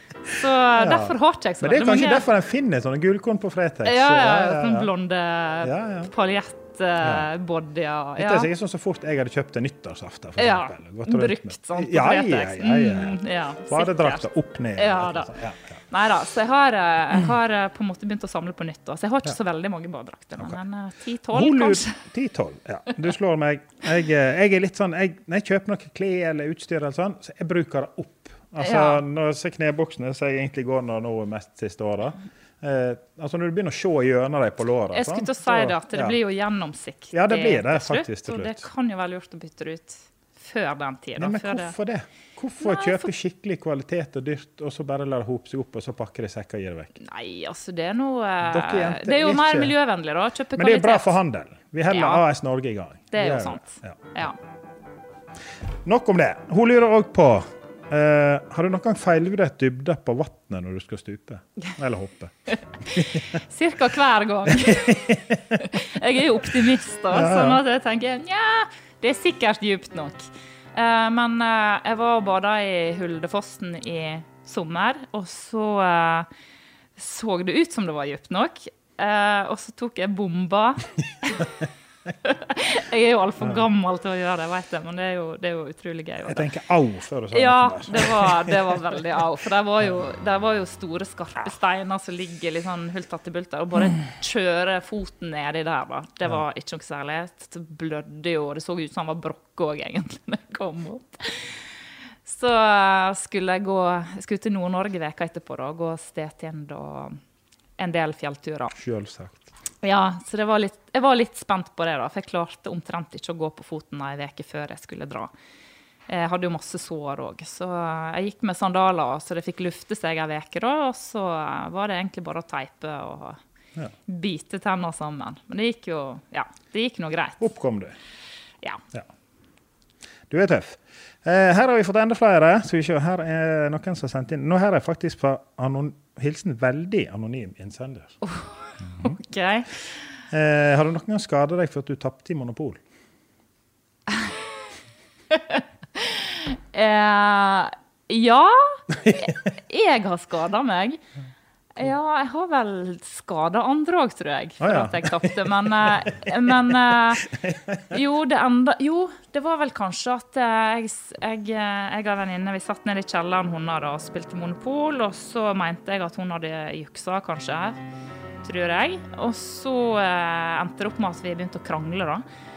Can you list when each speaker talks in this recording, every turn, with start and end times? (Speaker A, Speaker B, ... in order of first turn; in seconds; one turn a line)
Speaker A: 0.3-4.9
Speaker B: 0.4-2.2
Speaker B: 3.9-8.5
Speaker A: 5.6-6.1
Speaker A: 7.0-7.3
Speaker A: 8.2-15.8
Speaker B: 10.4-15.3
Speaker B: 15.9-22.0
Speaker A: 21.3-36.2
Speaker B: 28.6-29.0
Speaker B: 34.9-41.8
Speaker A: 37.1-38.7
Speaker A: 41.2-47.0
Speaker B: 42.6-43.1
Speaker B: 47.0-51.2
Speaker A: 48.4-49.7
Speaker A: 50.6-54.1
Speaker B: 51.9-52.2
Speaker B: 53.1-54.4
Speaker A: 55.9-62.4
Speaker B: 62.5-76.3
Speaker A: 62.9-63.3
Speaker A: 64.5-65.4
Speaker A: 67.1-67.6
Speaker B: 77.0-81.6
Speaker B: 82.2-86.5
Speaker A: 86.3-88.8
Speaker B: 87.3-101.7
Speaker B: 102.2-107.2
Speaker B: 107.8-108.7
Speaker A: 108.8-109.5
Speaker B: 109.8-115.3
Speaker B: 116.1-123.4
Speaker B: 124.1-127.5
Speaker A: 127.4-128.0
Speaker A: 130.3-138.2
Speaker B: 138.2-140.0
Speaker A: 138.8-139.2
Speaker A: 140.3-142.8
Speaker B: 145.3-151.0
Speaker B: 151.8-157.3
Speaker A: 154.6-156.5
Speaker A: 157.2-157.9
Speaker B: 157.9-167.8
Speaker B: 168.4-172.2